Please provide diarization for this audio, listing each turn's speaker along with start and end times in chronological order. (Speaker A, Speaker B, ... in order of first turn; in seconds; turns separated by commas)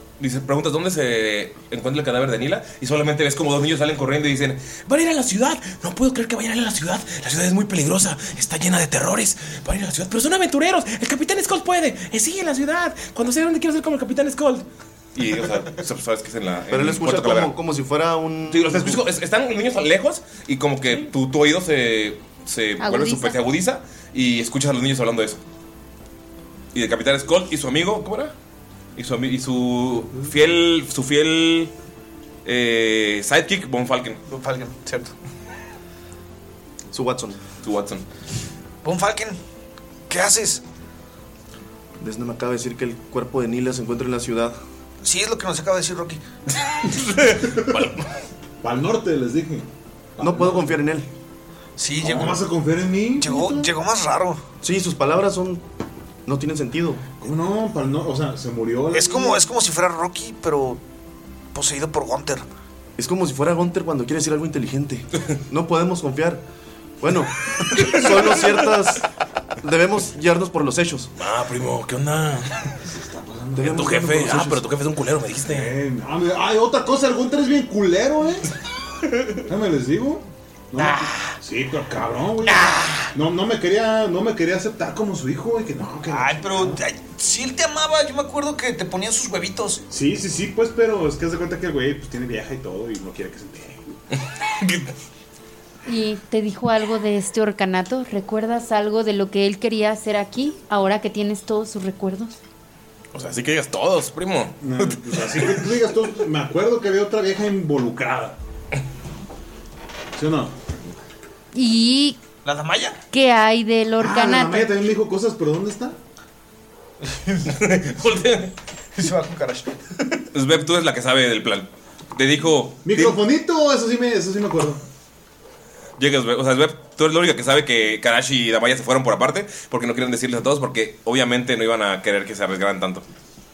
Speaker A: 0.2-17.5, Speaker B: 16.7-19.0, Speaker A: 18.5-25.4, Speaker C: 22.8-23.4, Speaker A: 26.7-28.3, Speaker A: 29.0-31.7, Speaker A: 32.5-34.2, Speaker D: 34.3-35.1, Speaker B: 36.9-37.4, Speaker A: 37.6-38.0, Speaker D: 38.8-39.4, Speaker D: 40.1-40.6, Speaker B: 42.0-44.6, Speaker D: 45.0-46.2, Speaker A: 46.8-48.1, Speaker E: 48.6-50.8, Speaker B: 50.2-51.1, Speaker D: 51.8-52.4, Speaker E: 52.0-53.7, Speaker D: 53.2-54.4, Speaker B: 54.6-55.6, Speaker B: 56.3-57.0, Speaker E: 57.2-59.5, Speaker D: 58.9-60.8, Speaker D: 61.5-62.5, Speaker B: 63.0-66.4, Speaker B: 67.0-69.0, Speaker B: 69.6-71.1, Speaker A: 71.2-72.8, Speaker E: 72.9-74.6, Speaker B: 73.6-74.2, Speaker A: 73.7-75.7, Speaker E: 75.4-78.5, Speaker E: 79.5-86.8, Speaker A: 80.8-81.3, Speaker A: 82.4-83.1, Speaker D: 86.1-89.8, Speaker E: 89.9-93.9, Speaker A: 94.2-94.9, Speaker C: 95.9-102.4, Speaker A: 103.1-105.7, Speaker E: 104.6-108.4, Speaker E: 110.2-110.6, Speaker C: 111.5-112.2, Speaker D: 112.4-113.0, Speaker C: 113.1-114.8, Speaker E: 114.0-116.0, Speaker D: 117.0-117.6, Speaker A: 117.5-118.5, Speaker D: 119.0-120.2, Speaker A: 120.3-123.2, Speaker E: 122.8-124.8, Speaker A: 126.0-133.1